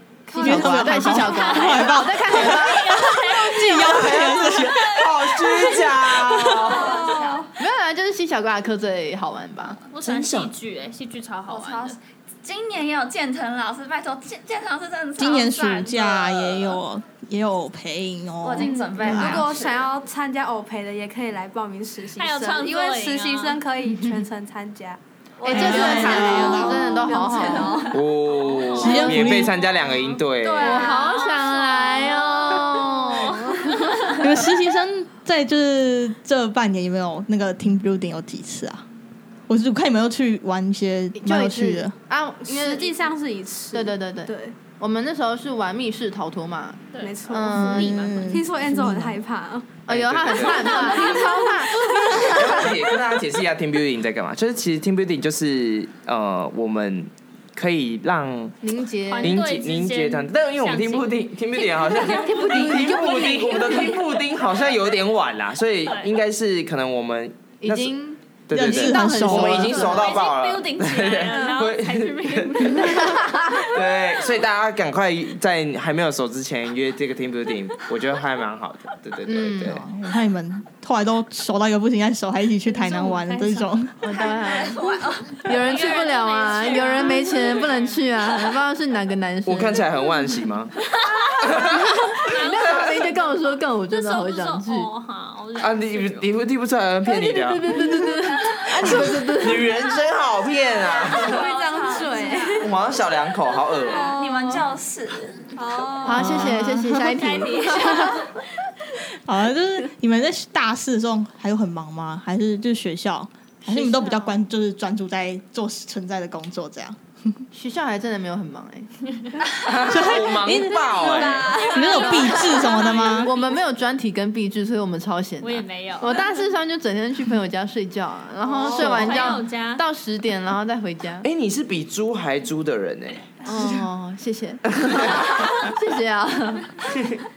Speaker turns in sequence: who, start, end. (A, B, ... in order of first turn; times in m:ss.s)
0:00.3-0:03.0 A
0:00.3-0:01.7 B
0:00.4-0:05.0 C
0:01.1-0:05.0 D
0:03.8-0:07.0 E
0:06.5-0:07.5 F
0:06.6-0:07.5 B
0:07.6-0:09.8 A
0:09.9-0:12.0 D
0:10.0-0:10.5 E
0:11.5-0:16.8 F
0:15.2-0:19.4 C
0:18.4-0:19.9 F
0:18.6-0:28.0 B
0:22.2-0:23.6 D
0:23.8-0:24.2 A
0:25.4-0:27.8 F
0:25.5-0:27.9 A
0:25.5-0:26.9 C
0:27.9-0:30.7 E
0:28.3-0:29.3 D
0:28.8-0:29.5 C
0:29.9-0:30.2 D
0:30.4-0:31.4 B
0:30.6-0:34.2 A
0:30.7-0:34.2 D
0:34.2-0:38.9 C
0:39.5-0:42.0 C
0:41.2-0:42.9 A
0:42.4-0:44.6 B
0:43.7-0:48.0 A
0:46.9-0:48.3 D
0:47.0-0:49.8 B
0:47.6-0:49.2 C
0:49.9-0:53.0 A
0:49.9-0:51.0 E
0:50.6-0:52.2 D
0:51.0-0:52.4 B
0:52.2-0:58.6 E
0:58.6-0:59.4 A
0:59.1-1:04.0 D
0:59.2-1:19.8 E
1:02.1-1:04.0 A
1:05.8-1:06.2 D
1:07.6-1:10.2 A
1:08.5-1:09.8 C
1:09.7-1:11.5 F
1:09.8-1:13.8 D
1:12.9-1:13.3 A
1:19.3-1:19.8 A
1:19.6-1:24.0 C
1:22.7-1:23.8 D
1:24.0-1:30.0 A
1:24.1-1:25.5 F
1:25.4-1:28.1 D
1:29.4-1:30.7 E
1:30.8-1:33.3 D
1:31.4-1:31.9 E
1:32.2-1:34.9 A
1:33.9-1:36.3 D
1:35.6-1:37.9 E
1:37.1-1:39.8 A
1:38.7-1:41.4 E
1:40.9-1:42.8 F
1:41.0-1:42.8 B
1:42.6-1:44.2 E
1:43.8-1:44.7 B
1:43.9-1:46.0 F
1:45.6-1:46.5 B
1:46.0-1:48.1 A
1:46.2-1:47.1 C
1:46.9-1:48.5 D
1:49.2-1:57.4 C
1:53.7-1:54.4 A
1:57.5-1:58.9 A
1:59.6-2:01.7 E
1:59.9-2:01.0 C
1:59.9-2:02.7 B
2:01.0-2:03.6 D
2:01.6-2:03.3 C
2:03.1-2:11.3 A
2:05.4-2:06.4 D
2:08.5-2:09.8 D
2:11.2-2:13.4 E
2:13.4-2:16.8 A
2:14.8-2:15.7 E
2:16.9-2:17.2 E